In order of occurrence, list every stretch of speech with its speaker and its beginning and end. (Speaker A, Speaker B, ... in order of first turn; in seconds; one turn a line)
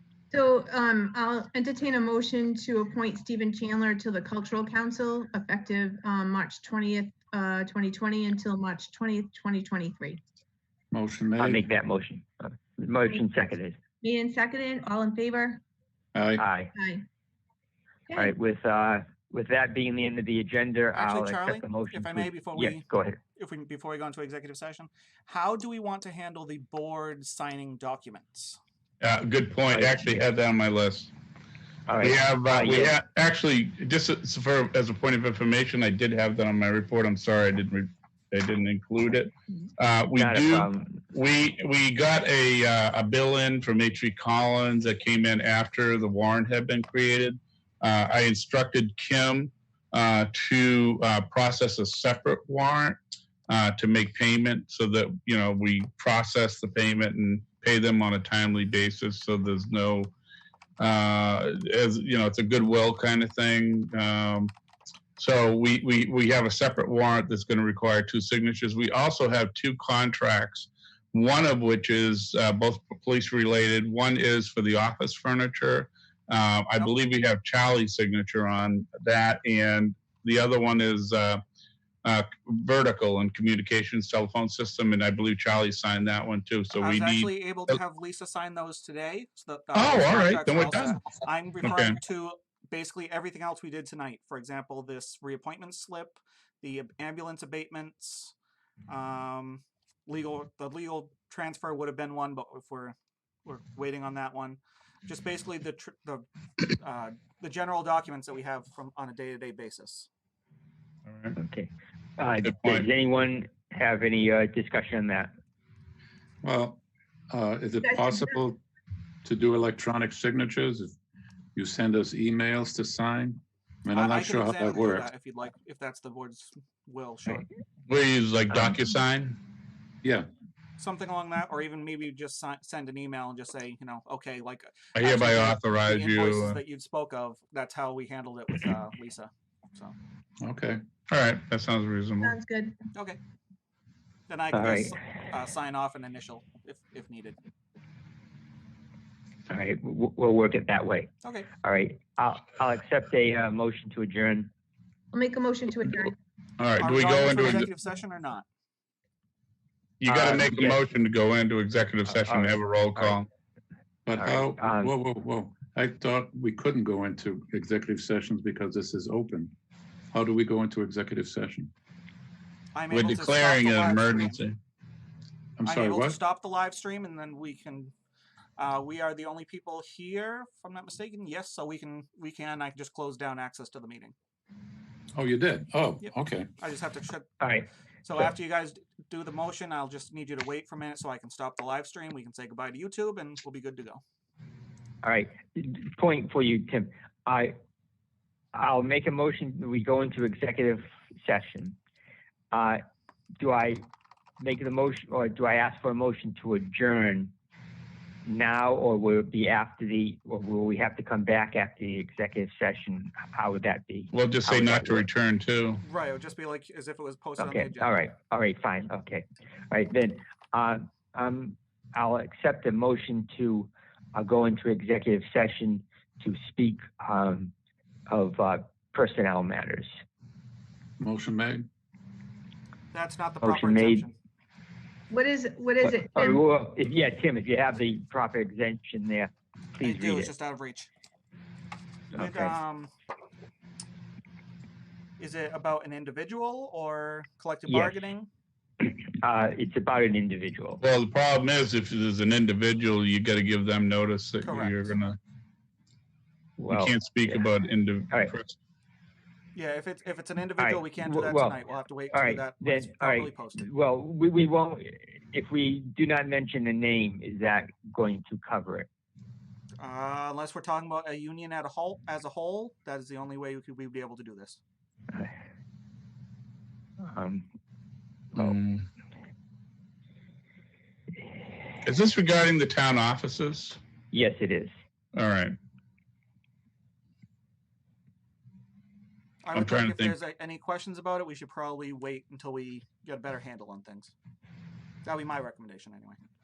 Speaker A: 0.3-10.2
Speaker B: 10.9-11.7
Speaker C: 11.4-13.8
Speaker A: 14.0-15.6
Speaker B: 16.1-16.4
Speaker C: 16.4-16.7
Speaker A: 16.8-17.0
Speaker C: 18.1-23.2
Speaker D: 20.9-22.8
Speaker D: 23.4-28.6
Speaker E: 29.0-31.1
Speaker C: 29.7-30.2
Speaker C: 31.9-32.9
Speaker E: 32.0-53.0
Speaker C: 40.2-41.0
Speaker E: 53.5-60.1
Speaker E: 60.8-64.5
Speaker E: 65.2-81.4
Speaker E: 82.0-87.3
Speaker D: 86.7-98.3
Speaker E: 89.7-91.0
Speaker E: 91.6-91.9
Speaker D: 98.9-110.1
Speaker E: 111.1-111.3
Speaker C: 111.3-115.3
Speaker E: 112.4-112.9
Speaker B: 116.4-118.6
Speaker A: 117.8-118.4
Speaker B: 119.2-120.9
Speaker B: 121.5-125.1
Speaker D: 123.9-127.5
Speaker E: 127.9-129.4
Speaker B: 128.5-128.8
Speaker B: 130.0-130.3
Speaker D: 130.8-139.9
Speaker E: 134.9-136.6
Speaker B: 140.4-140.8
Speaker E: 141.1-142.3
Speaker A: 142.2-142.7
Speaker D: 142.9-143.2
Speaker D: 144.3-147.4
Speaker C: 144.5-144.9
Speaker C: 149.5-151.1
Speaker D: 151.2-151.5
Speaker C: 151.6-154.5
Speaker A: 155.1-156.1
Speaker E: 156.6-157.7
Speaker D: 156.8-158.4
Speaker E: 160.0-163.3
Speaker C: 160.1-160.8
Speaker C: 162.1-163.2
Speaker B: 164.1-169.5
Speaker C: 164.2-164.9
Speaker B: 170.1-171.7
Speaker D: 172.7-174.4
Speaker E: 172.9-174.6
Speaker B: 175.6-176.2
Speaker D: 175.6-177.9
Speaker D: 178.6-184.1
Speaker B: 185.1-186.5
Speaker D: 186.0-187.3
Speaker C: 187.4-187.7
Speaker D: 188.0-194.0
Speaker C: 195.0-197.5
Speaker C: 198.5-201.8
Speaker C: 202.5-202.8
Speaker C: 203.4-203.8
Speaker C: 204.4-207.3
Speaker C: 208.2-215.0
Speaker E: 214.1-215.8
Speaker D: 215.8-217.9
Speaker C: 217.4-227.5
Speaker C: 228.1-229.9
Speaker B: 231.0-231.7
Speaker D: 232.9-234.1
Speaker C: 233.4-234.1
Speaker A: 235.1-236.4
Speaker C: 235.8-240.3
Speaker D: 239.8-240.9
Speaker D: 242.1-242.9
Speaker C: 242.1-242.6
Speaker D: 245.2-248.3
Speaker C: 247.7-248.0
Speaker C: 248.8-250.8
Speaker E: 250.8-255.2
Speaker D: 254.4-254.9
Speaker C: 256.6-257.4
Speaker E: 256.7-258.6
Speaker D: 259.5-263.7
Speaker C: 260.6-261.6
Speaker C: 262.1-268.9
Speaker D: 269.8-274.6
Speaker C: 277.0-277.4
Speaker E: 278.3-278.9
Speaker E: 281.8-283.8
Speaker C: 284.1-284.7
Speaker E: 285.1-285.5
Speaker D: 289.4-294.1
Speaker E: 289.5-290.1
Speaker D: 295.0-296.2